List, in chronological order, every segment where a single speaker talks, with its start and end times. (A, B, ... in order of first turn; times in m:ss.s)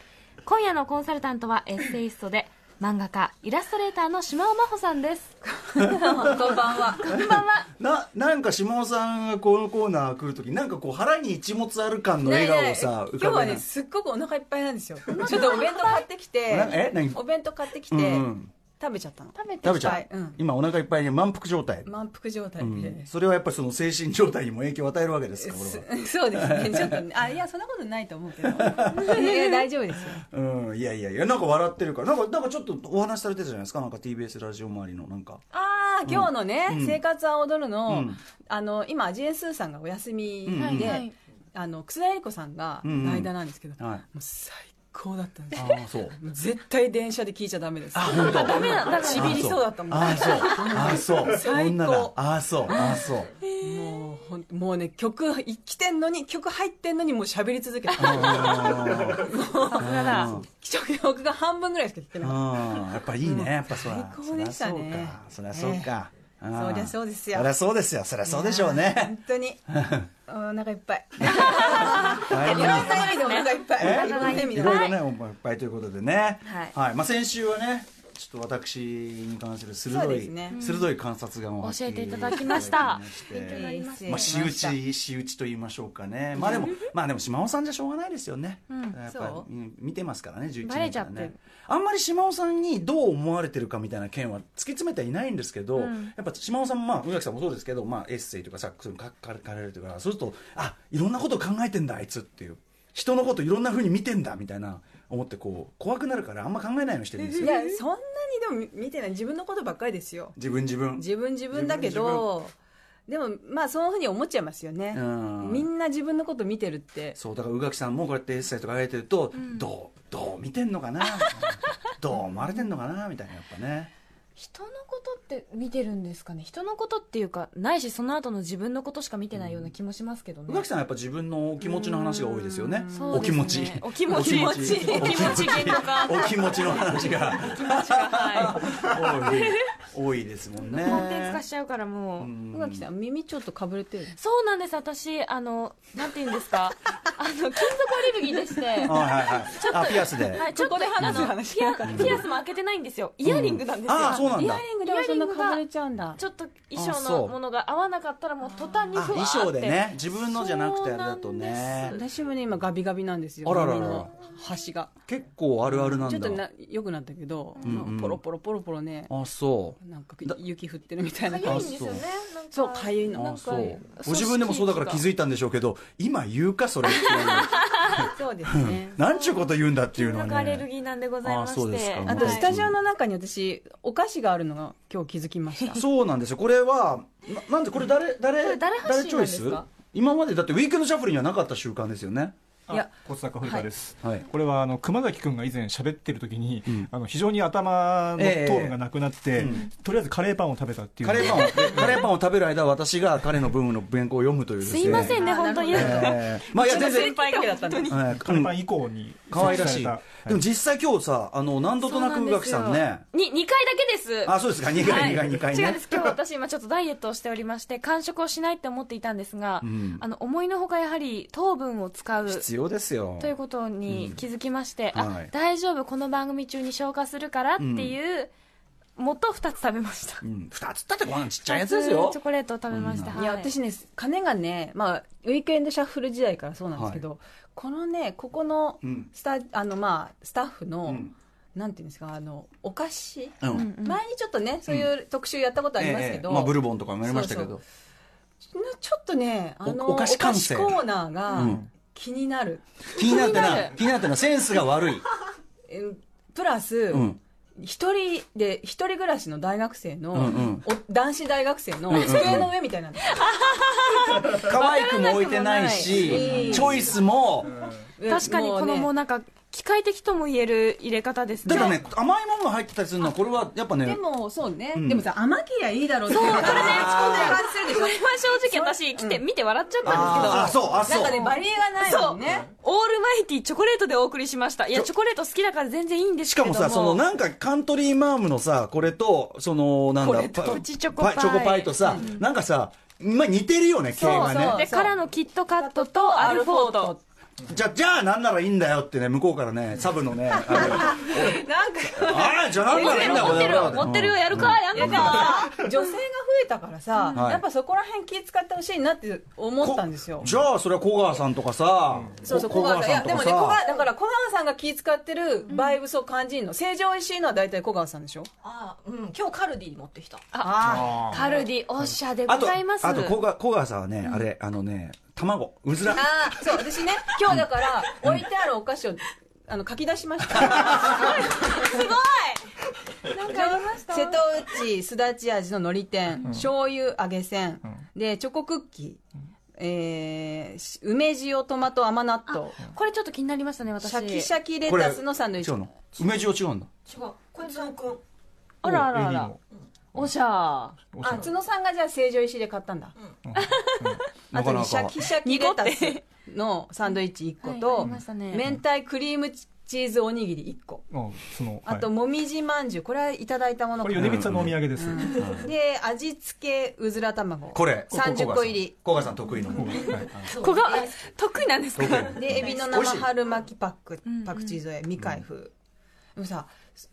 0:00.4-0:05.3 A
0:05.5-0:07.0 B
0:05.8-0:13.6 C
0:06.3-0:07.7 A
0:12.2-0:20.4 B
0:15.1-0:16.0 A
0:16.5-0:17.2 C
0:17.9-0:18.5 C
0:19.3-0:20.0 A
0:19.6-0:21.9 C
0:21.8-0:23.1 B
0:22.6-0:27.0 C
0:25.4-0:30.2 B
0:28.4-0:29.3 C
0:29.1-0:29.5 A
0:30.1-0:35.4 C
0:35.5-0:52.2 B
0:36.0-0:37.0 C
0:37.9-0:38.2 C
0:40.4-0:41.1 C
0:40.6-0:41.1 A
0:42.8-0:44.0 C
0:45.5-0:46.2 C
0:47.9-0:53.3 C
0:48.1-0:49.6 A
0:50.1-0:50.8 A
0:52.7-0:53.0 B
0:52.7-0:54.0 A
0:53.6-1:05.9 B
0:58.0-1:00.5 C
0:59.6-1:00.4 A
1:02.2-1:09.2 C
1:06.5-1:07.5 B
1:08.2-1:14.9 B
1:09.7-1:10.1 C
1:11.2-1:13.1 C
1:11.2-1:15.0 A
1:13.8-1:47.6 C
1:16.4-1:16.7 B
1:19.9-1:20.6 B
1:20.5-1:20.9 A
1:21.6-1:24.4 A
1:23.3-1:24.8 B
1:26.4-1:26.8 A
1:28.7-1:29.0 A
1:29.1-1:29.5 B
1:30.6-1:31.4 A
1:35.7-1:36.1 A
1:47.2-1:47.6 A
1:47.4-1:50.4 B
1:50.4-1:52.3 C
1:51.0-1:52.5 B
1:53.1-1:57.2 B
1:54.9-1:55.7 C
1:57.2-2:03.9 C
1:59.4-1:59.7 A
2:01.2-2:01.5 A
2:04.4-2:10.6 A
2:09.4-2:09.7 C
2:10.5-2:21.4 C
2:11.6-2:19.7 A
2:12.7-2:13.3 B
2:14.4-2:15.7 B
2:20.7-2:22.3 A
2:22.2-2:22.8 C
2:22.5-2:24.1 B
2:24.1-2:35.6 A
2:28.8-2:30.4 C
2:30.3-2:32.2 B
2:31.0-2:31.3 C
2:33.2-2:34.6 C
2:34.1-2:36.2 B
2:36.2-2:42.0 A
2:36.8-2:37.4 C
2:38.4-2:38.9 B
2:38.9-2:42.0 C
2:41.8-2:44.9 B
2:43.4-2:44.1 C
2:45.1-2:46.4 C
2:45.7-2:49.1 B
2:47.6-2:47.8 A
2:47.6-2:48.2 C
2:49.1-2:50.4 C
2:49.8-2:51.8 B
2:51.2-2:55.0 A
2:51.4-2:52.0 C
2:52.5-2:53.8 B
2:53.1-3:00.7 C
2:56.9-2:58.1 A
2:57.9-2:59.0 B
2:59.1-3:02.5 A
3:01.2-3:02.8 C
3:02.0-3:05.8 B
3:05.7-3:12.3 C
3:08.4-3:09.6 A
3:12.7-3:13.6 D
3:13.0-3:21.3 E
3:18.2-3:18.8 C
3:19.3-3:19.6 C
3:21.0-3:27.1 C
3:21.3-3:21.9 A
3:24.6-3:28.0 A
3:24.8-3:27.9 B
3:27.9-3:28.6 C
3:28.2-3:30.4 E
3:29.2-3:30.0 D
3:29.3-3:33.0 C
3:29.4-3:29.6 A
3:31.8-3:42.5 A
3:34.2-3:36.1 C
3:39.6-3:40.0 C
3:42.2-3:43.3 C
3:43.2-3:48.3 A
3:43.9-3:44.2 C
3:44.9-3:45.3 C
3:47.6-3:48.0 C
3:49.0-3:50.2 A
3:50.2-3:53.2 C
3:51.4-3:53.5 A
3:53.1-4:07.6 B
3:56.7-3:57.0 C
3:58.8-3:59.1 C
4:00.8-4:01.1 C
4:03.4-4:03.7 C
4:03.5-4:04.0 A
4:05.8-4:07.6 C
4:08.5-4:13.7 B
4:09.6-4:11.6 C
4:12.9-4:15.0 C
4:13.0-4:13.7 A
4:15.6-4:23.3 B
4:16.9-4:17.2 C
4:20.1-4:20.6 C
4:21.9-4:22.5 C
4:21.9-4:22.4 A
4:23.2-4:26.7 A
4:24.0-4:24.4 B
4:24.0-4:27.6 C
4:25.3-4:26.8 B
4:28.0-4:28.9 B
4:28.0-4:31.8 A
4:31.4-4:34.0 C
4:33.8-4:39.2 B
4:34.7-4:35.1 C
4:36.1-4:47.0 A
4:36.2-4:37.4 C
4:39.8-4:42.5 B
4:39.8-4:41.2 C
4:46.3-4:54.6 C
4:50.0-4:52.2 A
4:51.8-4:52.1 B
4:54.0-4:55.0 B
4:54.0-4:56.9 A
4:55.5-4:57.0 B
4:57.4-5:05.3 C
5:00.5-5:03.9 B
5:00.9-5:01.2 A
5:02.7-5:05.7 A
5:04.6-5:10.3 B
5:06.9-5:07.2 A
5:07.1-5:07.4 C
5:09.6-5:13.6 C
5:12.2-5:18.3 B
5:15.5-5:15.7 A
5:18.4-5:20.2 D
5:20.3-5:23.2 A
5:20.4-5:21.4 B
5:20.8-5:21.2 D
5:22.3-5:26.4 C
5:25.8-5:31.8 B
5:27.3-5:28.2 C
5:30.8-5:32.4 A
5:33.0-5:34.2 A
5:33.1-5:39.0 B
5:39.6-5:42.6 B
5:42.3-5:44.3 A
5:43.8-5:45.7 B
5:44.6-5:46.7 C
5:46.9-5:47.7 A
5:46.9-5:48.0 D
5:48.6-5:49.4 A
5:48.6-5:49.4 E
5:49.9-5:50.8 A
5:50.9-5:51.3 E
5:51.0-5:51.3 D
5:51.0-5:52.9 B
5:53.3-5:54.0 E
5:53.4-5:54.0 A
5:54.3-5:55.0 C
5:54.3-6:00.8 B
5:55.0-5:56.0 A
5:57.4-5:58.5 A
6:00.9-6:01.8 E
6:01.6-6:08.8 B
6:03.8-6:04.6 E
6:04.0-6:05.4 C
6:04.0-6:05.4 D
6:07.5-6:10.3 C
6:09.6-6:10.9 D
6:09.6-6:12.5 A
6:11.8-6:13.1 C
6:12.1-6:15.5 B
6:14.0-6:14.6 A
6:16.1-6:16.6 B